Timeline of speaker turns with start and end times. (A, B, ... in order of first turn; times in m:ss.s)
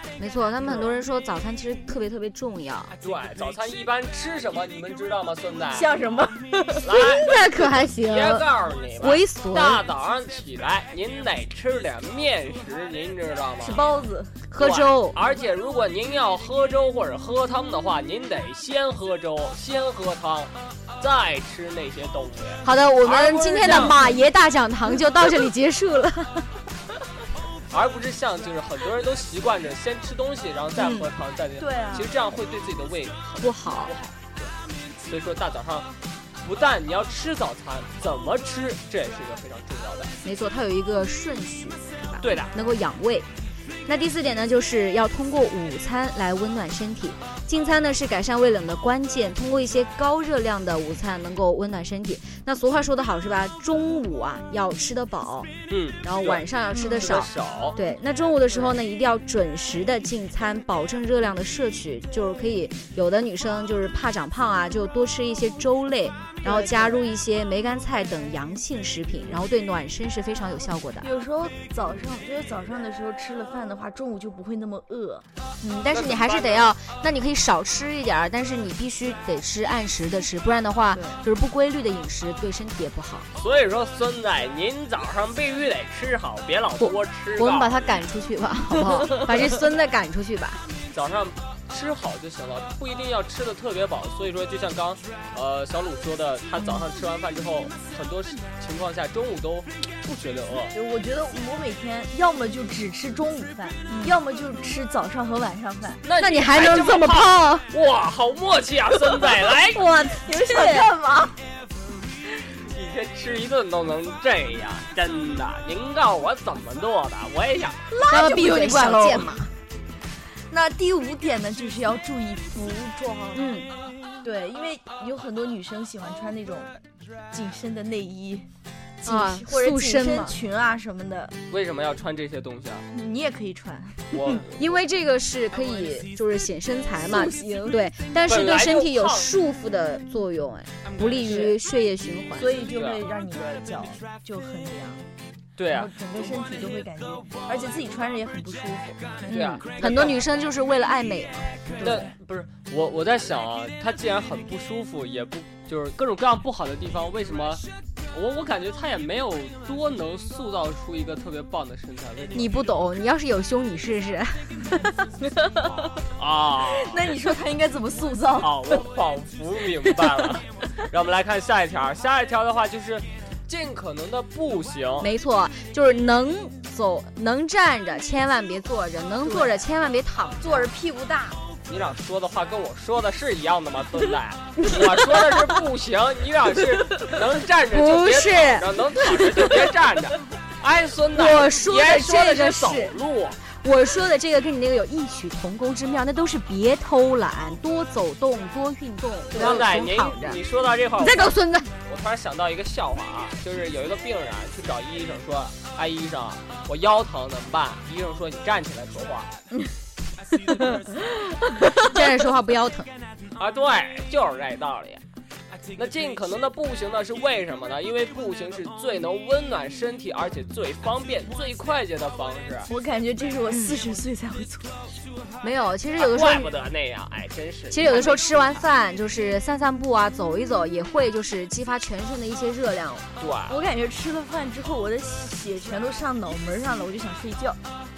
0:00.2-0:02.9 A
0:03.0-0:05.9 B
0:05.7-0:06.8 C
0:06.8-0:07.4 B
0:06.9-0:08.5 A
0:08.0-0:13.8 B
0:09.0-0:09.8 A
0:13.6-0:14.4 C
0:14.5-0:15.2 A
0:14.6-0:24.0 B
0:22.6-0:26.6 A
0:23.6-0:24.2 C
0:27.7-0:34.5 B
0:30.8-0:31.1 A
0:31.6-0:32.1 C
0:33.4-0:33.9 A
0:35.1-0:35.9 B
0:36.4-0:40.1 B
0:40.2-0:43.3 A
0:42.2-0:42.5 B
0:43.8-0:55.5 A
0:55.7-0:57.8 B
0:56.0-1:11.1 A
1:06.4-1:07.0 C
1:11.0-1:15.2 C
1:15.6-1:23.3 A
1:15.9-1:16.7 B
1:20.9-1:21.2 C
1:23.4-1:28.1 B
1:26.8-1:30.6 A
1:30.9-1:40.7 B
1:36.6-1:36.8 A
1:40.7-1:46.0 C
1:43.9-1:44.2 A
1:46.0-1:49.8 B
1:46.2-1:47.7 A
1:49.7-1:50.9 A
1:50.2-1:51.4 C
1:52.4-1:57.8 B
1:57.8-1:59.4 C
1:58.1-1:59.5 A
2:00.2-2:03.4 C
2:03.3-2:03.7 A
2:04.2-2:08.5 C
2:09.0-2:11.4 C
2:09.0-2:10.3 A
2:11.5-2:12.8 B
2:12.9-2:14.4 C
2:14.1-2:14.7 B
2:14.5-2:22.6 A
2:17.0-2:17.8 C
2:18.2-2:19.3 B
2:21.2-2:21.6 C
2:22.4-2:25.0 C
2:22.7-2:23.0 B
2:25.6-2:25.9 B
2:25.7-2:29.2 C
2:29.3-2:31.5 A
2:29.3-2:30.2 B
2:31.7-2:32.1 C
2:31.8-2:42.5 B
2:42.3-2:45.0 A
2:46.1-2:47.1 B
2:46.6-2:48.7 C
2:48.4-2:55.1 B
2:55.0-3:00.7 A
2:59.2-2:59.6 C
3:00.4-3:01.4 C
3:01.7-3:13.4 B
3:07.7-3:09.6 A
3:11.1-3:20.4 A
3:19.4-3:29.3 B
3:21.0-3:21.7 A
3:31.6-3:31.8 C
3:31.9-3:32.9 A
3:33.4-3:35.0 B
3:35.7-3:42.7 B
3:42.6-3:44.8 C
3:43.5-3:43.7 A
3:45.4-3:46.5 A
3:46.0-3:48.6 B
3:47.7-3:53.1 A
3:53.2-3:53.6 B
3:53.5-3:57.6 C